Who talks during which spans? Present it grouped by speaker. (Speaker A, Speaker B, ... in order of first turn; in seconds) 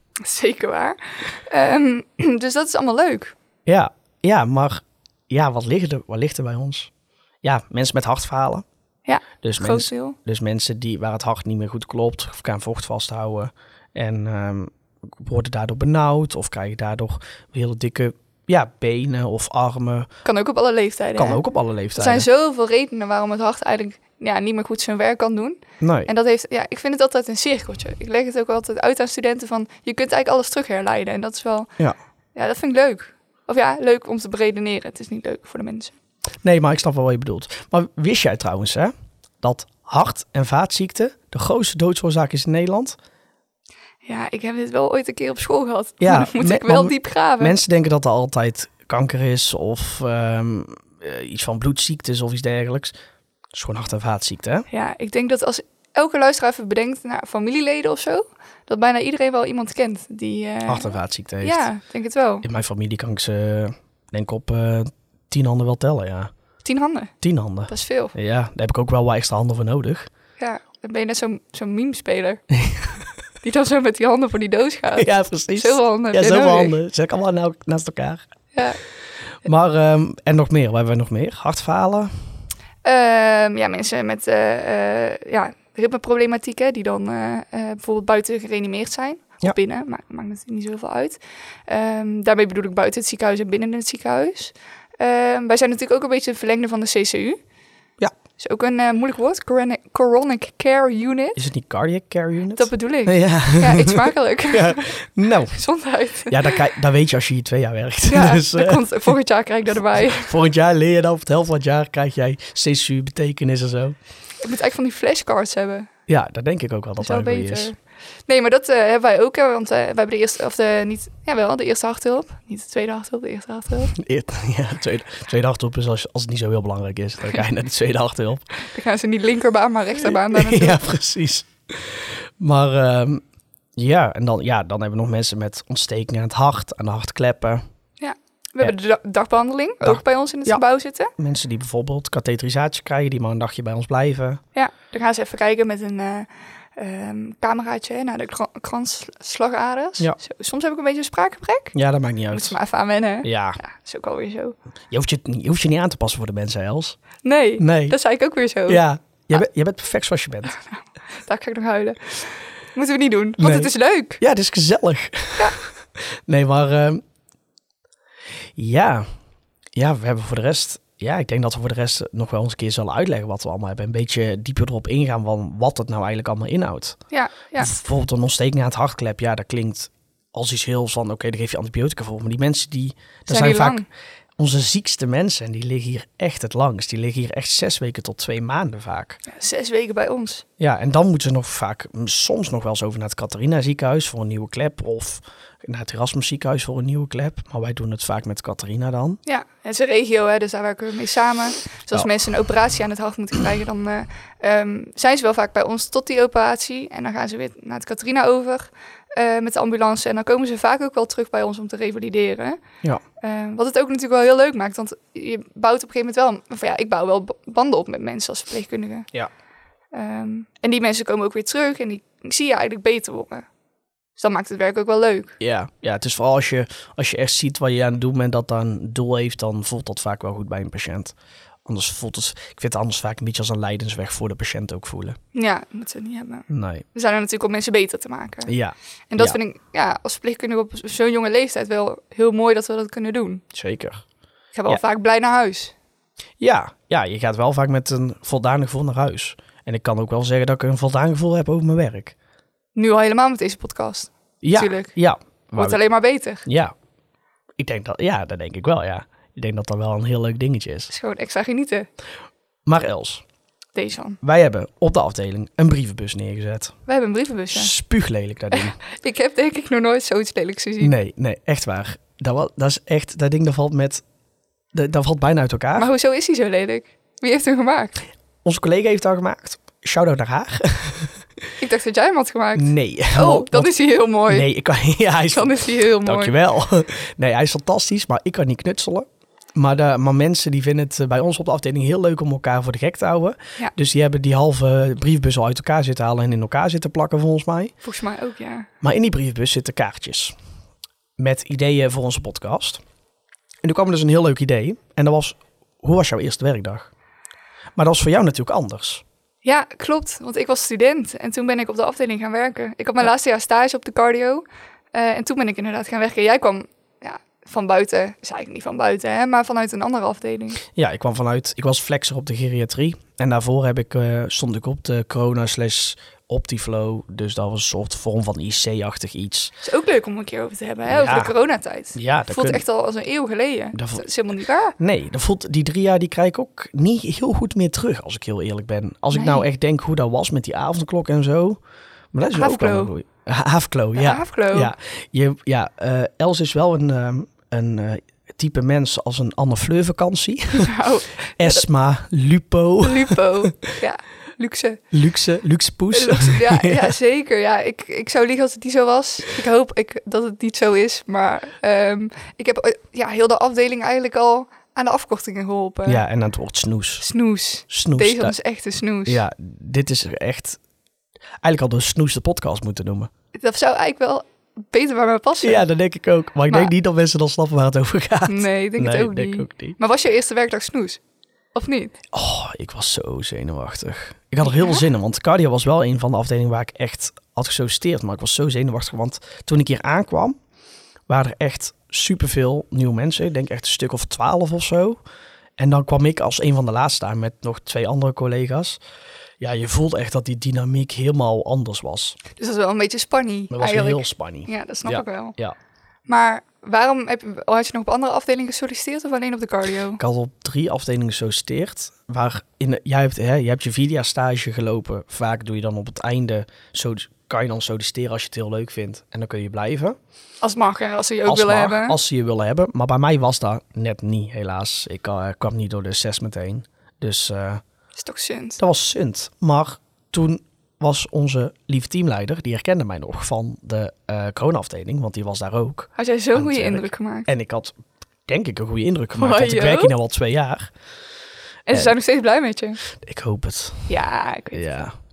Speaker A: 0.2-3.3, 9.1-10.2, 20.2-21.4, 21.9-31.7, 32.4-36.0, 44.0-47.5, 54.7-62.4, 66.6-67.1, 67.7-68.1, 70.4-72.4, 73.4-76.8, 78.5-78.8, 82.8-97.4, 98.4-101.4, 102.5-104.9, 105.5-106.6, 108.0-110.3, 114.4-115.9, 117.0-117.8, 118.3-123.9, 128.5-130.8, 138.0-141.1, 144.5-151.8, 152.3-154.5, 157.2-158.8, 160.5-164.2, 177.1-177.7, 183.3-183.9, 189.2-190.4, 199.2-212.6, 213.2-219.1, 219.9-223.5, 224.2-225.4, 235.3-238.5, 239.1-243.4, 244.5-245.7, 252.8-254.9, 255.5-256.4, 260.9-261.9, 263.8-264.2, 266.9-267.7, 268.5-270.9, 275.8-278.0, 281.6-284.5, 285.3-286.3, 297.8-298.7, 309.4-320.6, 329.6-334.8, 339.1-339.4, 342.2-342.9, 343.9-344.7, 350.5-351.6, 352.8-354.8, 355.9-366.0, 367.0-369.2, 373.4-375.6, 378.3-381.0, 381.5-381.9, 384.4-384.9, 402.4-405.4, 406.1-410.0, 420.4-422.0, 428.0-428.6, 435.9-437.3, 439.2-439.9, 441.7-442.8, 443.9-444.8
Speaker B: 3.6-6.9, 7.4-8.6, 9.4-20.1, 21.1-22.2, 25.8-26.1, 36.4-43.0, 46.0-52.9, 53.5-54.7, 60.7-61.7, 62.4-66.3, 67.2-70.1, 72.6-72.9, 75.0-78.2, 79.4-82.1, 101.4-105.6, 106.3-109.1, 110.1-114.0, 116.1-117.7, 123.9-128.4, 130.0-133.2, 133.8-137.6, 139.8-140.6, 141.2-144.4, 151.7-152.6, 153.2-153.6, 154.9-157.0, 157.6-158.0, 158.7-160.6, 163.4-167.0, 168.6-169.1, 169.8-177.0, 177.6-183.8, 184.4-189.2, 190.6-199.2, 225.4-231.1, 231.7-235.2, 236.5-236.8, 238.4-239.4, 243.5-244.0, 246.4-252.1, 254.4-255.8, 256.4-256.7, 257.6-260.9, 262.6-263.2, 264.2-266.8, 267.5-268.8, 270.8-274.0, 274.7-275.9, 278.4-281.2, 282.6-283.7, 284.2-297.7, 298.8-300.3, 301.2-302.8, 303.6-306.9, 307.8-309.0, 320.8-329.5, 330.9-331.3, 331.9-332.6, 333.7-334.0, 334.8-341.6, 342.1-350.8, 351.4-353.5, 354.9-356.9, 365.9-367.1, 367.7-368.4, 369.1-370.6, 371.4-373.1, 375.4-379.8, 382.1-390.4, 391.1-395.0, 395.6-398.8, 399.4-402.2, 403.5-405.6, 410.0-419.9, 421.2-427.6, 428.6-440.7, 442.9-443.9, 444.5-444.9